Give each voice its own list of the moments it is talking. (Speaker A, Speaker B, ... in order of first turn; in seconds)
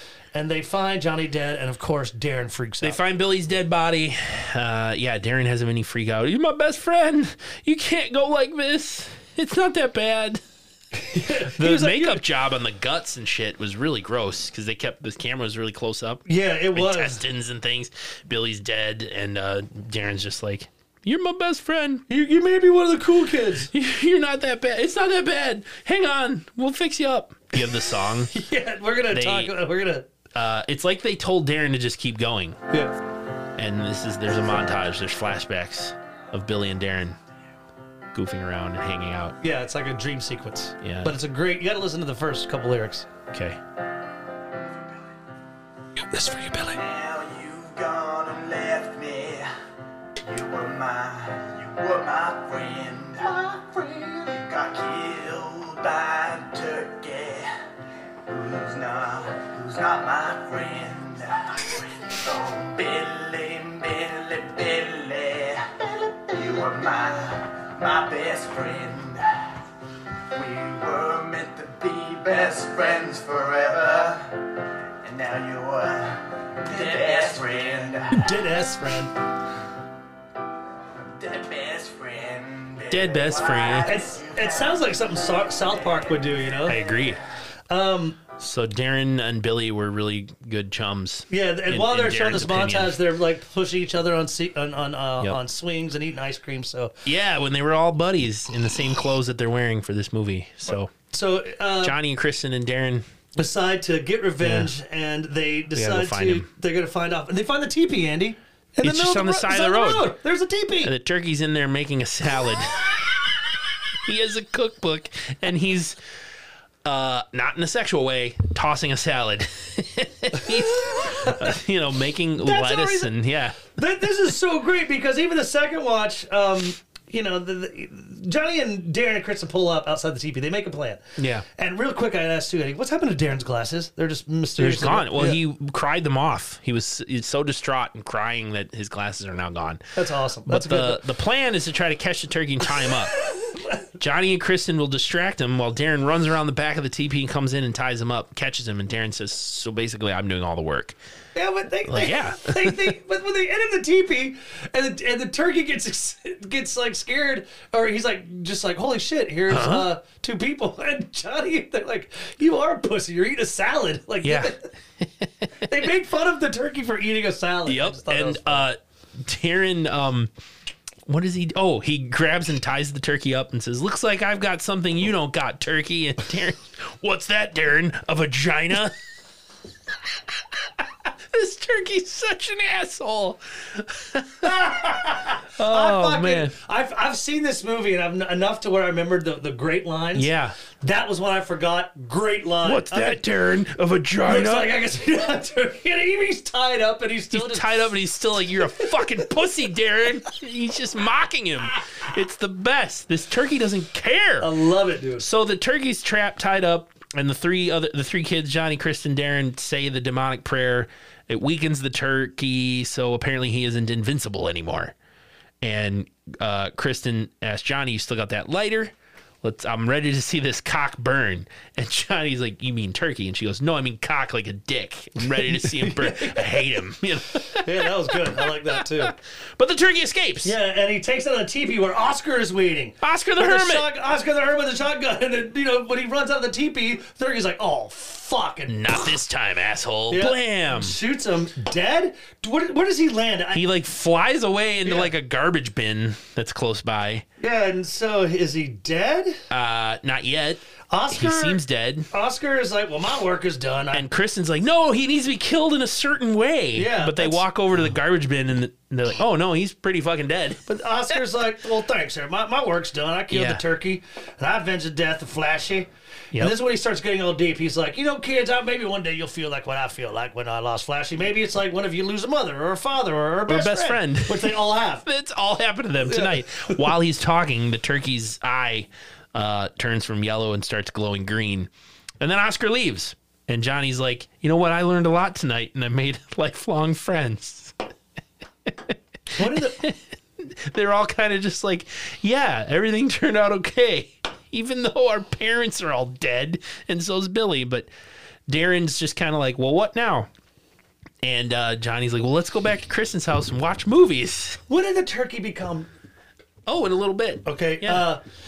Speaker A: 0.3-3.0, 11.0-12.2, 16.3-17.2, 22.1-23.7, 28.3-30.1, 39.4-43.1, 46.1-46.8, 78.1-79.2, 83.7-86.8, 87.7-88.2, 91.3-97.0, 101.1-102.0, 103.4-110.9, 120.9-121.5, 122.4-135.4, 139.9-141.0, 143.3-143.8, 151.3-164.7, 165.6-168.7, 184.4-193.2, 194.2-197.9, 198.8-199.2, 204.4-205.3, 225.2-226.7, 227.5-229.2, 230.4-239.1, 240.1-243.7, 244.8-245.1, 247.4-249.4, 250.9-254.1, 256.7-257.5, 260.7-275.1, 276.0-276.8, 289.4-289.8, 304.7-305.9, 307.4-308.2
Speaker B: 2.8-10.4, 11.1-22.0, 23.7-28.3, 29.1-29.5, 30.3-32.6, 33.6-37.2, 38.1-39.4, 40.8-41.1, 43.3-43.6, 82.9-84.0, 86.7-87.2, 88.4-93.0, 97.0-100.9, 101.8-103.0, 104.4-104.7, 105.7-106.5, 108.8-110.2, 110.8-113.0, 114.0-116.0, 116.8-123.6, 131.2-131.4, 134.6-139.9, 140.4-143.2, 144.0-151.0, 151.9-152.9, 159.5-159.9, 164.2-165.0, 167.7-170.3, 171.1-178.9, 180.1-184.8, 185.6-186.5, 190.2-190.6, 192.6-194.8, 197.3-204.5, 205.2-214.9, 215.6-230.5, 233.0-233.9, 238.7-241.0, 243.5-247.2, 249.5-252.1, 253.9-260.6, 263.3-263.6, 273.5-287.8, 288.7-297.9, 298.5-300.3, 301.2-304.6, 306.7-308.1
Speaker C: 46.7-49.5, 50.2-57.5, 58.2-69.6, 70.3-74.5, 75.0-78.3, 81.2-87.2